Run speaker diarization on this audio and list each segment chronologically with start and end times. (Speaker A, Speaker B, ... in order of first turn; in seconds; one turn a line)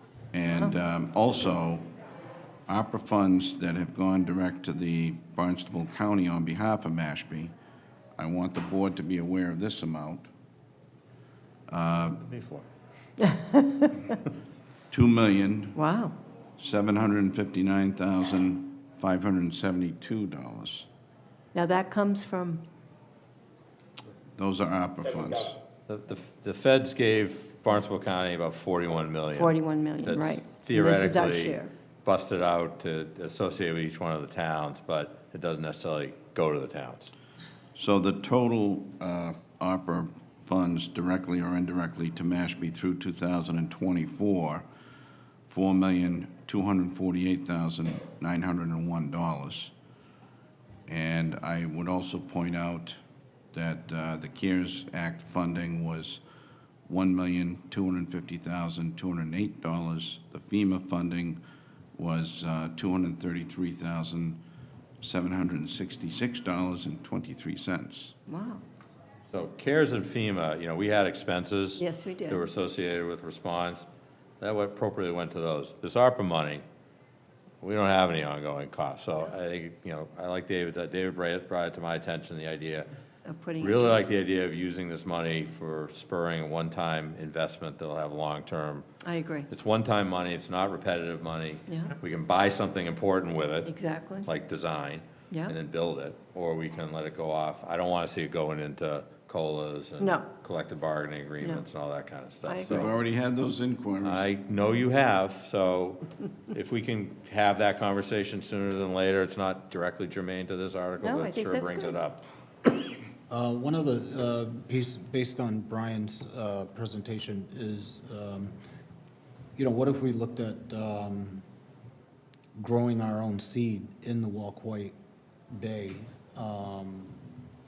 Speaker A: 0.3-1.9
Speaker A: 2.7-7.5
Speaker A: 8.2-10.3
Speaker A: 11.7-12.2
Speaker B: 12.3-12.7
Speaker C: 13.2-14.0
Speaker A: 14.9-15.8
Speaker C: 15.7-16.2
Speaker A: 16.6-20.9
Speaker C: 21.5-22.7
Speaker A: 24.4-25.6
Speaker B: 25.9-37.1
Speaker C: 29.3-31.7
Speaker A: 37.8-44.7
Speaker A: 45.5-49.7
Speaker A: 50.9-53.0
Speaker A: 53.5-56.2
Speaker A: 56.9-61.4
Speaker A: 62.0-64.4
Speaker A: 65.0-68.2
Speaker C: 68.3-68.6
Speaker B: 69.3-73.9
Speaker C: 71.8-72.4
Speaker B: 74.4-76.6
Speaker B: 77.6-82.9
Speaker C: 83.2-84.0
Speaker B: 83.6-88.9
Speaker C: 89.0-89.5
Speaker B: 89.5-93.7
Speaker C: 91.7-91.9
Speaker C: 93.7-94.3
Speaker B: 94.2-103.0
Speaker C: 95.3-95.6
Speaker C: 100.0-100.3
Speaker C: 102.4-102.8
Speaker A: 102.7-104.3
Speaker B: 104.0-112.3
Speaker C: 111.0-112.0
Speaker D: 113.3-118.5
Speaker D: 119.6-121.4
Speaker D: 122.5-125.0
Speaker D: 125.5-127.2